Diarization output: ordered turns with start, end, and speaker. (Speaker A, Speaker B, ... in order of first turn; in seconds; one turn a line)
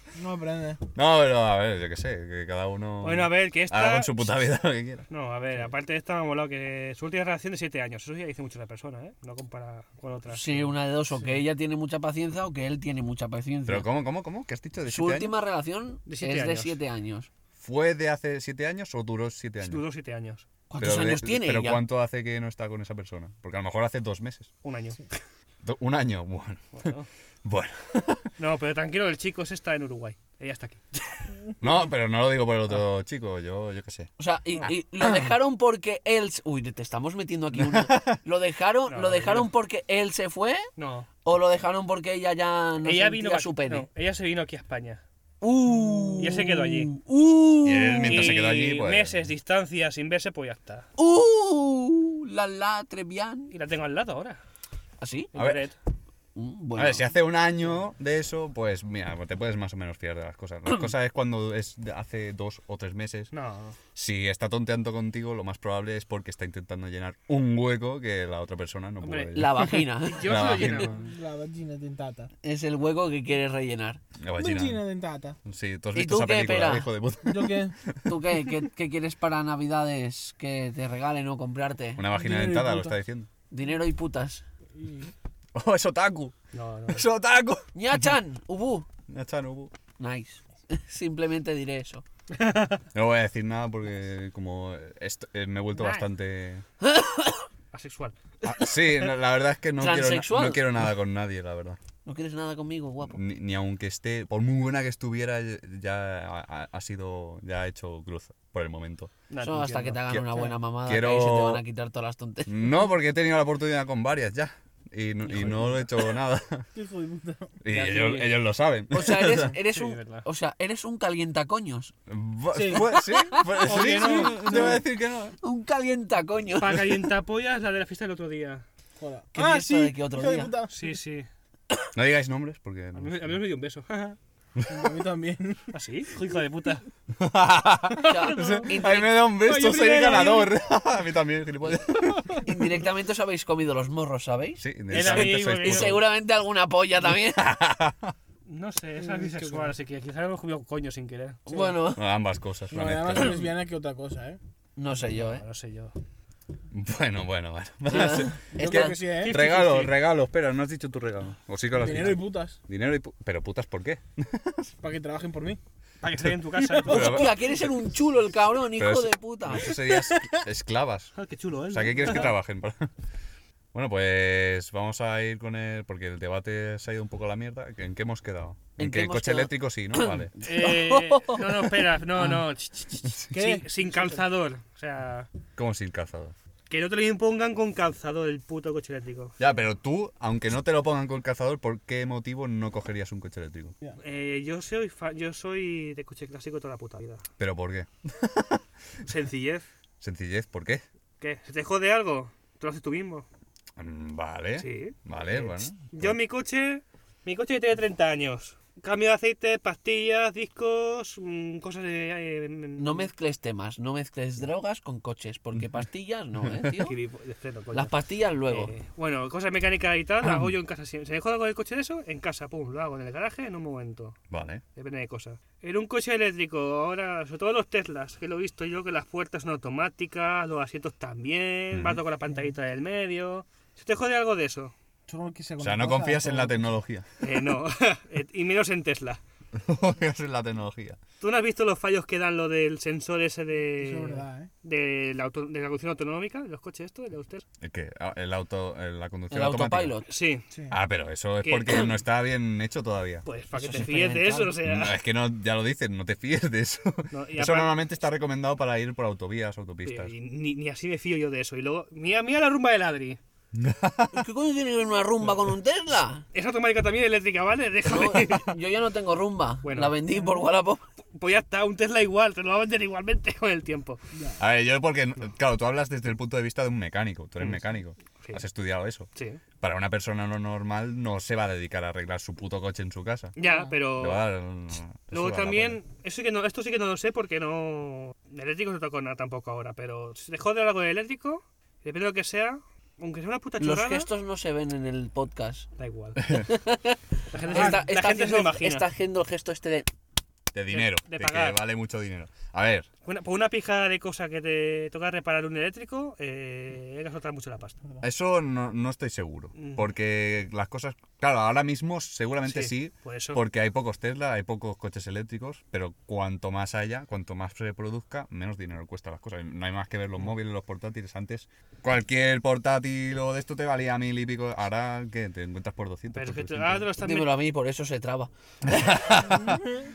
Speaker A: 0.1-0.8
Speaker B: 0.9-5.0
Speaker C: 3.0-4.3
Speaker C: 5.1-10.7
Speaker D: 10.3-13.9
Speaker B: 13.7-15.3
Speaker D: 14.8-17.3
Speaker C: 16.1-16.8
Speaker B: 17.6-19.8
Speaker C: 19.6-20.4
Speaker D: 20.7-21.8
Speaker B: 20.8-24.5
Speaker C: 24.6-25.2
Speaker B: 25.6-26.9
Speaker C: 26.7-27.1
Speaker B: 27.4-28.3
Speaker C: 28.4-31.4
Speaker B: 31.6-34.1
Speaker D: 34.2-40.7
Speaker B: 34.6-35.2
Speaker B: 37.5-38.2
Speaker C: 38.9-39.5
Speaker C: 40.8-41.1
Speaker D: 41.2-43.9
Speaker C: 42.8-45.0
Speaker D: 45.4-48.5
Speaker C: 46.1-46.9
Speaker B: 47.6-49.3
Speaker C: 48.0-50.9
Speaker D: 51.0-53.5
Speaker C: 53.5-54.4
Speaker D: 55.0-55.3
Speaker C: 55.3-55.7
Speaker B: 55.3-55.7
Speaker D: 56.4-57.0
Speaker B: 56.8-63.3
Speaker C: 63.3-63.8
Speaker B: 64.0-71.1
Speaker C: 69.0-71.0
Speaker D: 69.3-70.5
Speaker A: 70.9-72.3
Speaker D: 72.4-74.0
Speaker B: 74.2-74.8
Speaker A: 74.4-75.4
Speaker B: 75.4-78.0
Speaker D: 75.9-76.9
Speaker A: 77.2-77.8
Speaker D: 78.0-82.0
Speaker B: 82.0-83.3
Speaker A: 82.1-83.0
Speaker D: 83.5-84.4
Speaker A: 84.8-85.1
Speaker B: 85.5-86.3
Speaker C: 86.5-87.0
Speaker B: 86.9-87.7
Speaker D: 87.7-88.8
Speaker B: 89.1-89.7
Speaker D: 90.0-92.0
Speaker C: 92.4-92.8
Speaker B: 92.9-96.6
Speaker C: 95.8-96.0
Speaker D: 96.8-97.5
Speaker C: 97.7-98.2
Speaker B: 98.4-101.8
Speaker D: 99.8-100.7
Speaker D: 102.0-103.2
Speaker B: 103.1-109.1
Speaker C: 109.3-110.0
Speaker D: 109.4-112.7
Speaker B: 110.8-111.6
Speaker B: 112.5-116.7
Speaker C: 115.2-115.9
Speaker A: 116.7-117.5
Speaker B: 117.6-119.5
Speaker C: 117.7-118.4
Speaker D: 118.9-121.9
Speaker C: 119.3-120.2
Speaker B: 122.1-125.4
Speaker A: 122.5-122.8
Speaker D: 122.9-124.8
Speaker C: 123.6-124.7
Speaker A: 123.7-124.8
Speaker D: 125.4-127.0
Speaker C: 126.6-128.6
Speaker A: 129.0-131.0
Speaker D: 129.3-130.5
Speaker C: 130.7-131.3
Speaker B: 131.9-133.3
Speaker C: 132.9-134.2
Speaker A: 134.7-135.7
Speaker C: 135.7-136.8
Speaker B: 137.2-142.4
Speaker C: 138.0-138.8
Speaker D: 138.0-139.2
Speaker C: 139.3-140.5
Speaker D: 142.4-147.4
Speaker B: 144.6-146.0
Speaker C: 144.9-146.0
Speaker B: 147.1-148.1
Speaker C: 148.5-151.6
Speaker A: 149.0-149.7
Speaker D: 151.5-152.0
Speaker B: 151.9-153.5
Speaker A: 152.7-154.4
Speaker D: 154.8-155.4
Speaker C: 155.0-155.9
Speaker B: 156.7-164.7
Speaker D: 157.9-159.0
Speaker A: 158.6-159.4
Speaker C: 159.1-159.9
Speaker A: 161.7-162.6
Speaker A: 164.8-165.6
Speaker C: 166.0-167.3
Speaker B: 166.2-167.7
Speaker A: 166.6-167.0
Speaker D: 166.9-169.7
Speaker B: 168.8-171.1
Speaker A: 169.8-170.4
Speaker C: 171.1-172.3
Speaker B: 171.7-172.9
Speaker B: 173.7-180.3
Speaker D: 178.8-181.5
Speaker C: 180.4-185.3
Speaker A: 183.3-184.2
Speaker B: 185.6-186.3
Speaker C: 186.7-189.4
Speaker B: 189.4-193.7
Speaker C: 194.0-197.2
Speaker B: 197.4-198.6
Speaker C: 199.0-199.7
Speaker B: 200.0-200.8
Speaker C: 201.2-203.2
Speaker B: 203.8-206.2
Speaker C: 204.6-213.1
Speaker D: 212.8-216.9
Speaker B: 216.4-216.7
Speaker C: 216.6-217.9
Speaker D: 217.7-218.7
Speaker C: 218.4-224.2
Speaker B: 220.2-220.5
Speaker B: 224.3-224.6
Speaker C: 224.8-234.7
Speaker B: 231.7-232.0
Speaker A: 235.1-236.7
Speaker B: 235.6-237.4
Speaker C: 237.2-239.2
Speaker B: 239.5-241.0
Speaker C: 241.2-247.4
Speaker A: 243.8-244.5
Speaker B: 247.6-249.9
Speaker D: 249.3-250.1
Speaker C: 250.1-250.4
Speaker A: 250.5-250.8
Speaker B: 250.7-253.2
Speaker C: 251.4-251.9
Speaker C: 253.2-254.9
Speaker D: 253.5-254.6
Speaker B: 254.6-260.1
Speaker C: 257.1-257.7
Speaker C: 259.8-263.2
Speaker B: 263.5-264.2
Speaker D: 264.1-266.2
Speaker C: 266.3-268.5
Speaker D: 267.8-270.8
Speaker C: 269.6-269.9
Speaker C: 271.1-274.0
Speaker B: 274.4-279.1
Speaker C: 279.1-279.4
Speaker B: 279.6-283.4
Speaker C: 283.4-284.3
Speaker A: 283.4-283.7
Speaker B: 284.0-285.8
Speaker C: 285.1-294.1
Speaker D: 293.6-295.7
Speaker C: 295.8-296.4
Speaker D: 296.3-299.9
Speaker C: 297.3-298.9
Speaker A: 297.5-297.8
Speaker B: 300.5-302.9
Speaker C: 300.7-301.6
Speaker C: 303.0-307.8
Speaker B: 308.0-326.9
Speaker C: 309.5-309.9
Speaker C: 312.4-313.4
Speaker C: 326.1-327.4
Speaker D: 327.0-329.0
Speaker B: 328.6-329.6